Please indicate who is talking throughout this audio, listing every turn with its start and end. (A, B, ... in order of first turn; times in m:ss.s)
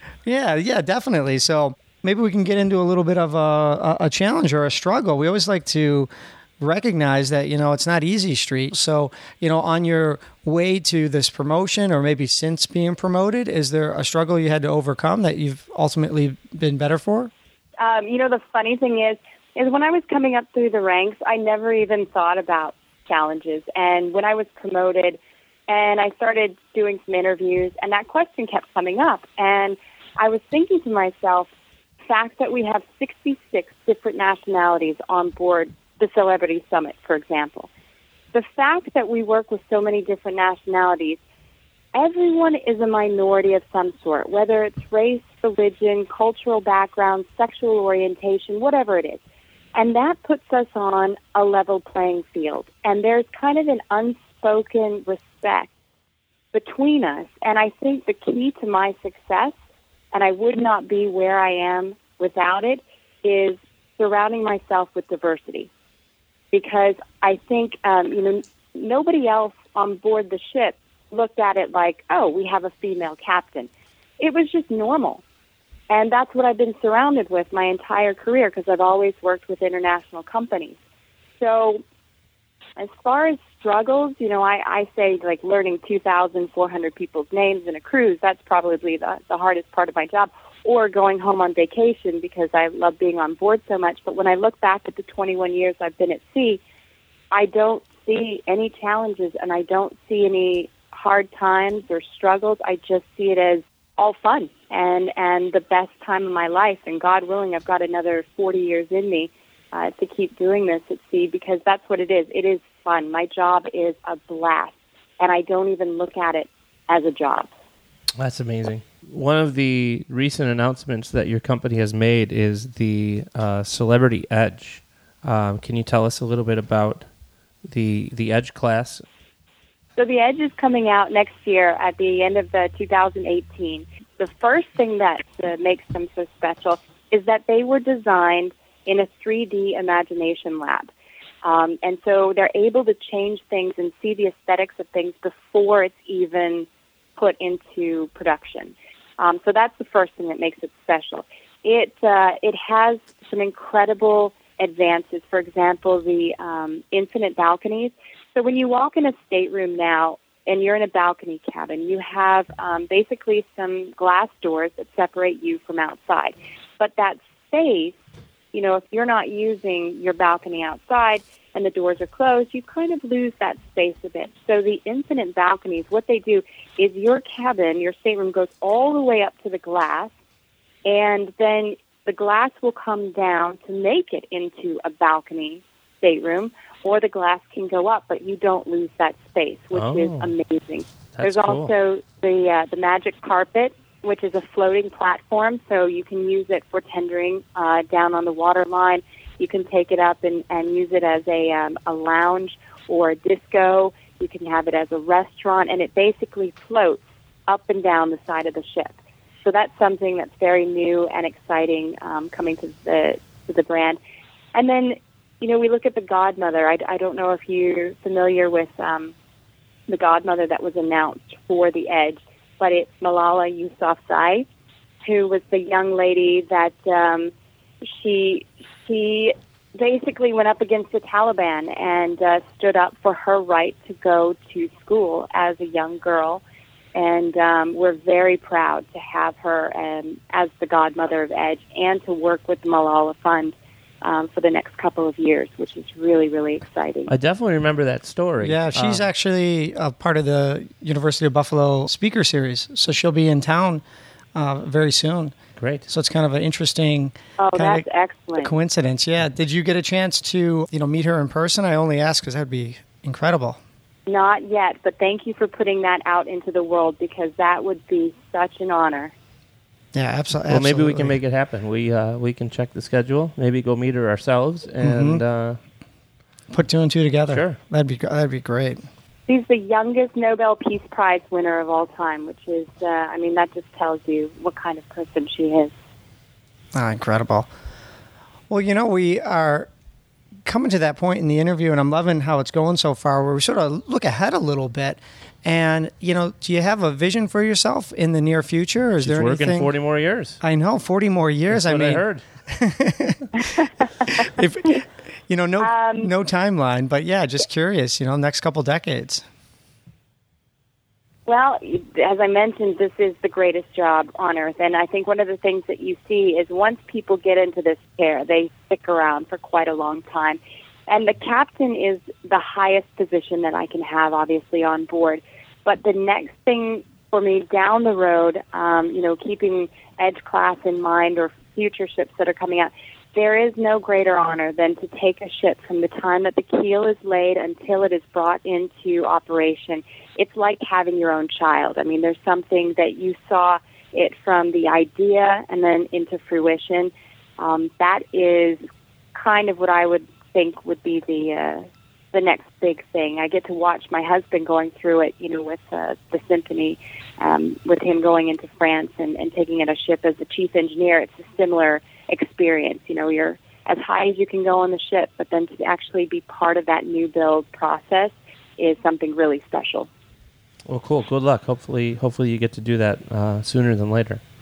0:00.3-0:17.3 A
0:17.8-0:31.5 B
0:32.1-0:37.7 B
0:38.3-0:41.2 B
0:41.9-0:49.2 B
0:49.8-0:55.7 B
0:56.5-0:59.5 B
1:00.1-1:05.7 B
1:06.5-1:15.2 B
1:15.9-1:20.8 B
1:21.4-1:21.8 B
1:22.8-1:36.6 B
1:37.3-1:57.5 B
1:58.2-2:07.1 C
2:07.6-2:09.0 C
2:10.0-2:20.9 B
2:21.4-2:48.0 B
2:48.5-3:00.1 B
3:00.8-3:34.0 B
3:09.7-3:10.3 C
3:11.2-3:11.7 C
3:34.5-3:39.1 B
3:39.9-3:44.5 B
3:45.0-3:56.4 B
3:56.9-4:07.1 B
4:07.1-4:09.1 C
4:08.4-4:13.8 A
4:14.4-4:15.4 A
4:15.6-4:15.9 C
4:15.9-4:17.8 A
4:17.4-4:18.5 B
4:18.4-4:23.6 A
4:24.1-4:29.1 B
4:29.9-4:31.1 A
4:30.5-4:35.6 C
4:34.8-4:35.2 A
4:36.5-4:38.8 A
4:37.3-4:37.6 C
4:39.3-4:45.7 B
4:46.7-4:47.5 A
4:48.5-4:49.7 A
4:50.5-4:59.7 A
4:59.0-5:00.4 C
5:00.4-5:09.2 A
5:01.5-5:02.2 C
5:03.4-5:03.7 B
5:05.6-5:06.1 B
5:11.3-5:48.6 B
5:49.2-6:09.9 B
6:10.7-6:14.2 C